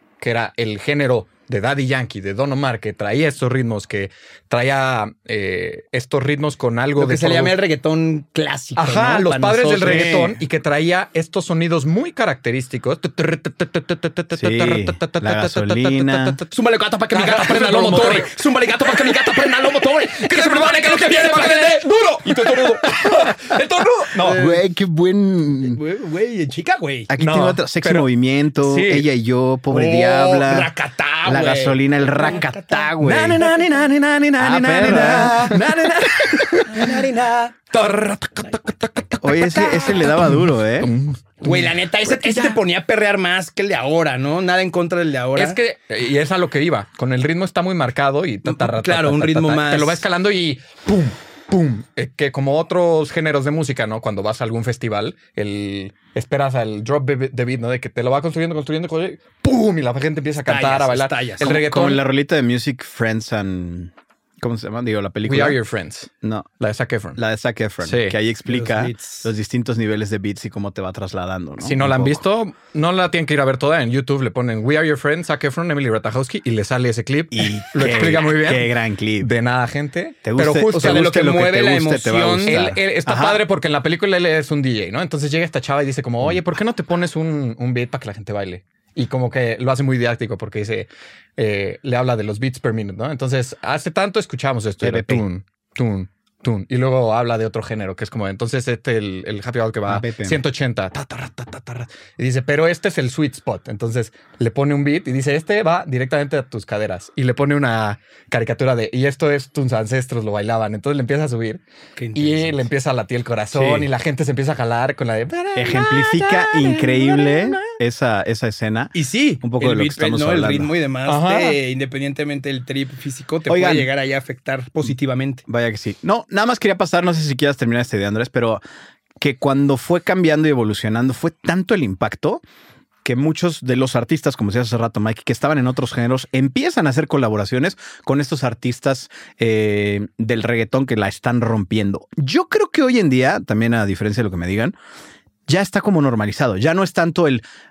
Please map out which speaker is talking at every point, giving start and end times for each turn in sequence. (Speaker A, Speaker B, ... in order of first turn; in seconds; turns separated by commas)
Speaker A: 0.2-7.5, Speaker B: 7.0-10.2, Speaker A: 8.8-16.5, Speaker C: 9.8-10.4, Speaker C: 14.3-16.4, Speaker B: 16.5-22.8, Speaker A: 17.1-18.3, Speaker A: 20.1-24.4, Speaker B: 24.1-24.6, Speaker C: 24.2-25.8, Speaker B: 25.6-27.1, Speaker C: 27.1-30.7, Speaker A: 27.2-28.1, Speaker A: 28.6-29.1, Speaker B: 29.7-33.6, Speaker C: 31.2-33.4, Speaker A: 33.0-37.0, Speaker C: 34.4-35.7, Speaker B: 36.7-37.5, Speaker A: 37.7-42.6, Speaker C: 39.2-40.9, Speaker B: 41.4-45.6, Speaker A: 45.4-62.0, Speaker B: 48.5-50.0, Speaker B: 60.5-61.5, Speaker C: 61.4-65.6, Speaker A: 65.2-67.2, Speaker C: 66.2-66.5, Speaker C: 67.2-72.2, Speaker A: 67.8-68.2, Speaker B: 68.5-69.3, Speaker A: 71.6-81.2, Speaker C: 77.3-79.3, Speaker C: 80.2-83.4, Speaker B: 80.7-82.6, Speaker A: 82.5-111.6, Speaker C: 94.8-95.2, Speaker C: 99.9-100.4, Speaker B: 112.0-112.6, Speaker A: 112.1-117.6, Speaker C: 113.5-113.9, Speaker C: 115.5-120.7, Speaker B: 118.9-125.4, Speaker A: 121.0-121.6, Speaker C: 123.5-123.9, Speaker C: 125.5-128.6, Speaker C: 129.2-132.4, Speaker C: 133.0-144.7, Speaker C: 145.5-147.4